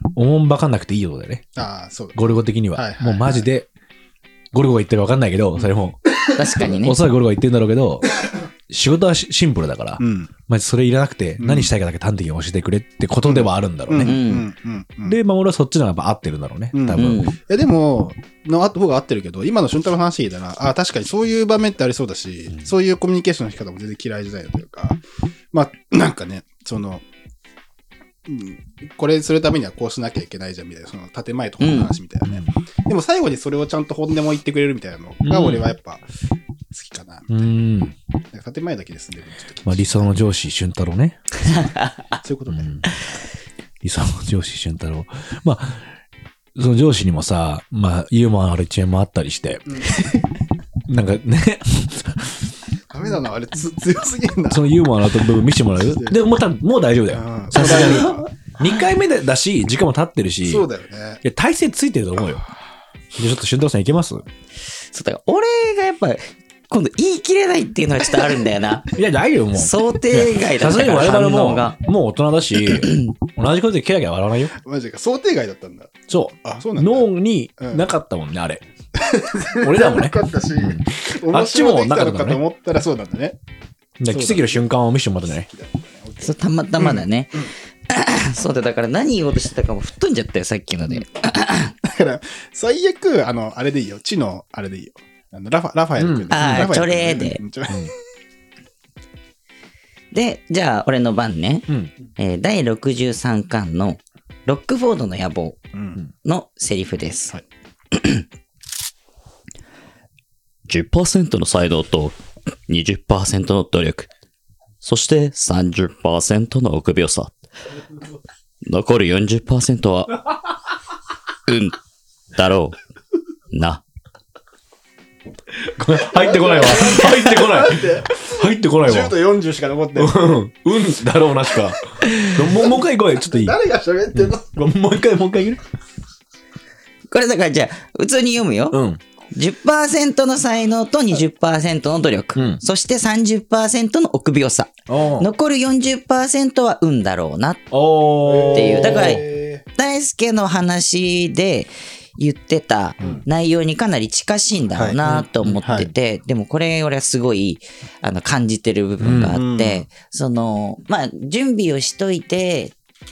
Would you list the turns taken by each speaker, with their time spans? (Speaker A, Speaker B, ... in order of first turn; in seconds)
Speaker A: 0.1-1.5, 2.1-3.7, 4.5-6.0, 6.8-8.1, 8.7-14.2, 15.0-17.3, 35.2-35.7, 37.3-38.0, 39.6-41.3, 42.5-42.9, 43.8-45.9, 46.6-49.9, 50.9-52.4, 54.5-60.7, 61.2-62.4, 63.2-64.2, 68.9-74.6, 76.1-78.6, 79.6-82.4, 84.0-85.5, 96.0-96.7, 125.6-129.2, 130.0-133.6, 134.1-135.6, 138.7-139.0, 142.4-142.6, 144.9-145.3, 147.7-149.3, 155.0-155.6, 159.0-159.4
Speaker B: 1.6-3.5, 10.0-10.3, 11.4-11.7, 13.2-15.2, 16.7-25.0, 25.5-27.0, 28.3-36.1, 36.7-37.5, 38.3-40.2, 42.2-43.3, 49.7-50.2, 52.9-54.7, 55.8-56.2, 57.1-58.3, 60.4-61.2, 74.6-77.8, 79.0-83.4, 84.1-84.7, 85.4-87.5, 91.8-97.9, 105.7-106.0, 126.0-130.4, 132.5-134.5, 148.2-149.7, 153.0-153.2, 154.7-155.0, 155.6-155.9, 159.3-159.9
Speaker C: 6.3-7.0, 14.0-14.5, 16.9-17.4, 31.6-31.9, 57.6-58.1, 64.9-68.9, 69.5-71.8, 72.8-73.1, 86.2-91.7, 96.3-97.4, 100.1-105.6, 106.2-107.4, 107.9-108.2, 137.1-138.8, 139.3-147.7, 148.5-162.8
Speaker D: 110.7-114.1, 114.8-117.4, 118.6-120.2, 121.5-121.8, 122.3-122.8, 123.5-123.8